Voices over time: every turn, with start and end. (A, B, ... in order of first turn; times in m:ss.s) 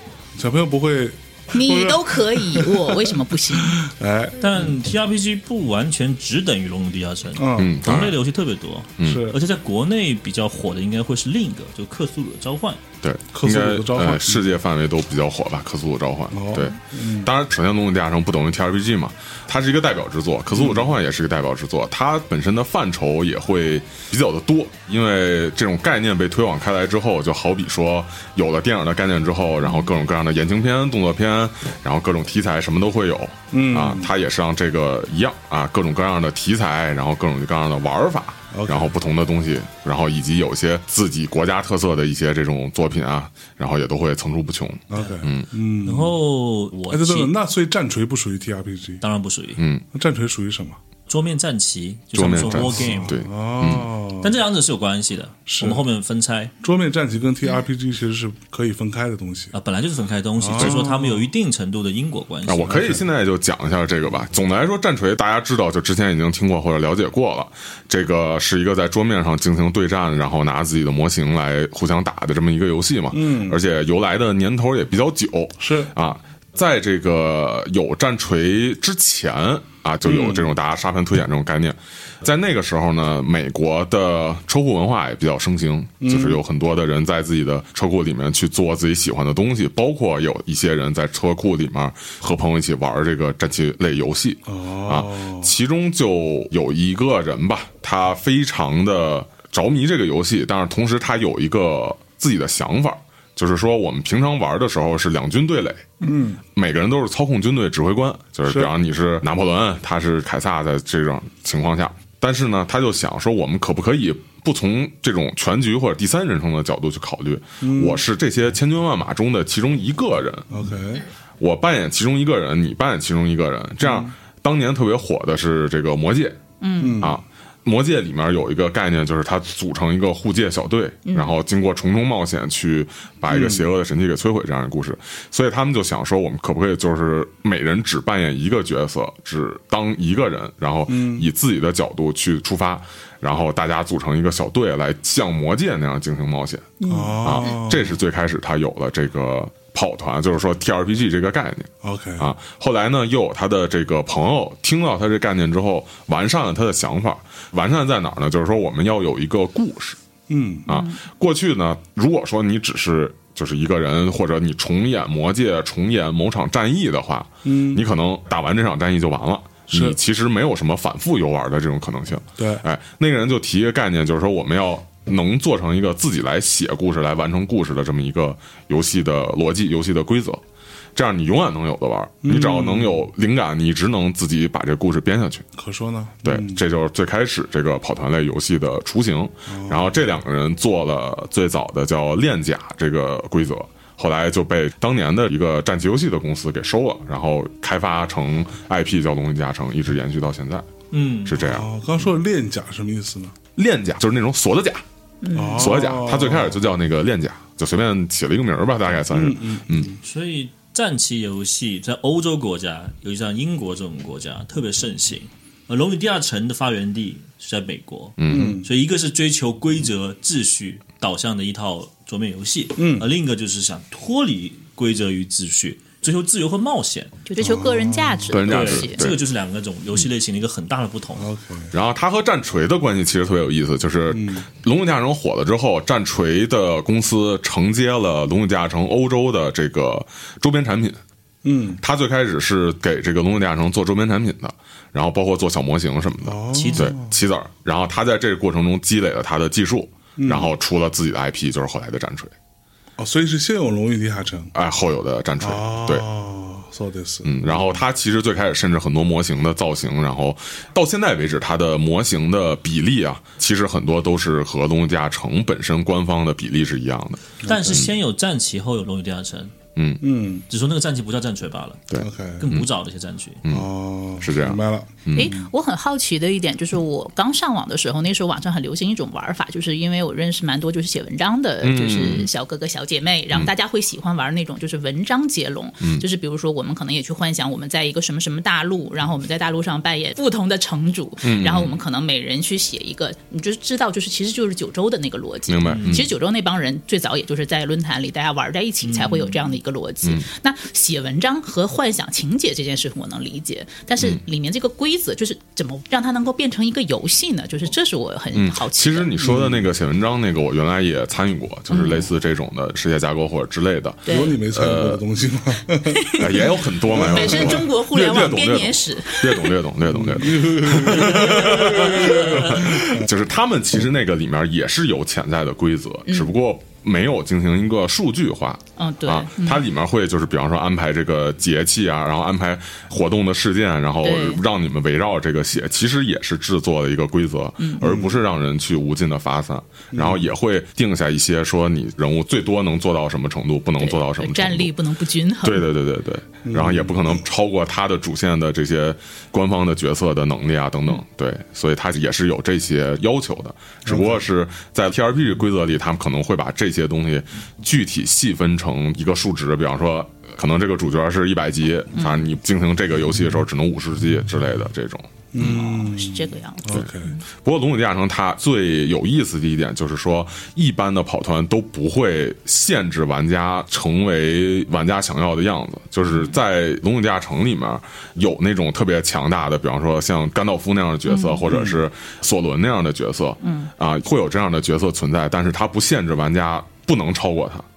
0:00.4-0:04.5 A
0:01.5-0:03.8 B
0:04.4-0:12.8 C
0:07.4-0:07.8 A
0:07.6-0:08.2 D
0:09.0-0:09.3 D
0:09.0-0:09.4 A
0:13.0-0:45.5 D
0:13.3-0:14.6 A
0:16.3-0:17.3 A
0:20.5-0:21.0 A
0:29.6-0:29.9 B
0:33.5-0:34.1 A
0:38.5-0:39.0 A
0:44.9-0:46.2 A
0:45.8-0:47.3 C
0:46.9-0:49.0 A
0:49.0-0:49.6 C
0:49.6-0:49.8 D
0:49.9-0:50.8 A
0:51.1-0:53.2 C
0:52.1-0:53.9 D
0:52.7-0:54.4 A
0:54.2-0:56.5 C
0:55.5-0:55.8 A
0:56.6-0:59.5 A
0:59.5-1:03.0 C
1:00.4-1:01.3 A
1:02.5-1:45.9 D
1:02.7-1:03.0 A
1:13.1-1:13.6 A
1:15.6-1:15.9 A
1:20.0-1:20.6 A
1:26.0-1:26.4 A
1:34.5-1:35.5 A
1:46.0-1:46.4 A
1:46.6-2:00.5 D
1:48.5-1:48.7 A
1:57.6-1:58.0 A
2:00.5-2:01.1 A
2:01.4-2:06.4 D
2:03.8-2:04.1 A
2:06.6-2:07.1 B
2:06.8-2:07.2 A
2:07.0-2:26.7 D
2:11.1-2:11.3 B
2:13.3-2:13.7 A
2:20.9-2:21.3 A
2:26.8-2:27.5 B
2:26.9-2:28.0 A
2:27.2-2:40.0 D
2:31.8-2:32.3 A
2:40.3-2:40.7 A
2:40.7-3:00.4 D
2:40.7-2:41.0 B
2:47.4-2:47.8 A
2:49.7-2:50.0 A
2:52.4-2:52.6 A
3:01.0-3:05.4 D
3:02.2-3:03.1 A
3:05.6-3:06.6 A
3:06.2-3:20.7 D
3:09.5-3:10.0 A
3:20.9-3:21.4 C
3:21.3-3:21.7 D
3:21.4-3:23.4 A
3:23.5-3:24.8 D
3:25.2-3:25.8 B
3:25.3-3:26.6 A
3:25.6-3:29.9 D
3:29.1-3:30.0 A
3:30.0-3:47.1 C
3:38.2-3:38.6 D
3:38.3-3:38.7 A
3:42.8-3:43.1 A
3:47.3-3:49.0 B
3:47.4-3:48.4 A
3:48.3-3:49.2 D
3:48.5-3:51.3 C
3:51.2-3:51.7 A
3:51.7-4:01.0 D
3:54.1-3:54.5 A
4:01.4-4:01.8 A
4:01.8-4:12.3 D
4:06.2-4:07.1 A
4:06.5-4:06.9 C
4:10.2-4:10.5 A
4:13.0-4:14.5 A
4:14.6-4:16.0 D
4:15.4-4:17.8 A
4:17.2-4:27.9 D
4:27.4-4:27.9 A
4:27.4-4:29.5 C
4:30.0-4:30.4 A
4:30.5-4:33.4 C
4:31.9-4:32.7 D
4:32.0-4:32.5 A
4:33.5-4:35.5 A
4:34.2-4:35.4 D
4:35.1-5:09.2 B
4:41.6-4:42.3 D
4:51.2-4:51.8 D
4:55.5-4:56.1 D
4:55.7-4:56.1 C
4:58.8-4:59.3 C
5:08.3-5:15.0 D
5:09.2-5:09.7 A
5:11.7-5:12.0 B
5:14.1-5:14.4 B
5:14.1-5:16.0 A
5:15.9-5:19.5 B
5:16.2-5:44.7 D
5:16.9-5:17.7 A
5:19.8-5:23.0 A
5:20.9-5:22.7 C
5:28.8-5:29.7 B
5:34.0-5:34.4 B
5:37.6-5:37.8 B
5:37.8-5:38.2 A
5:39.9-5:40.2 A
5:43.8-5:45.7 B
5:45.4-6:05.8 D
5:46.5-5:47.2 A
5:53.9-5:54.2 A
6:02.0-6:02.2 B
6:05.3-6:07.1 A
6:05.4-6:07.2 B
6:06.7-6:27.6 D
6:21.1-6:21.4 B
6:21.5-6:21.8 A
6:23.4-6:23.7 B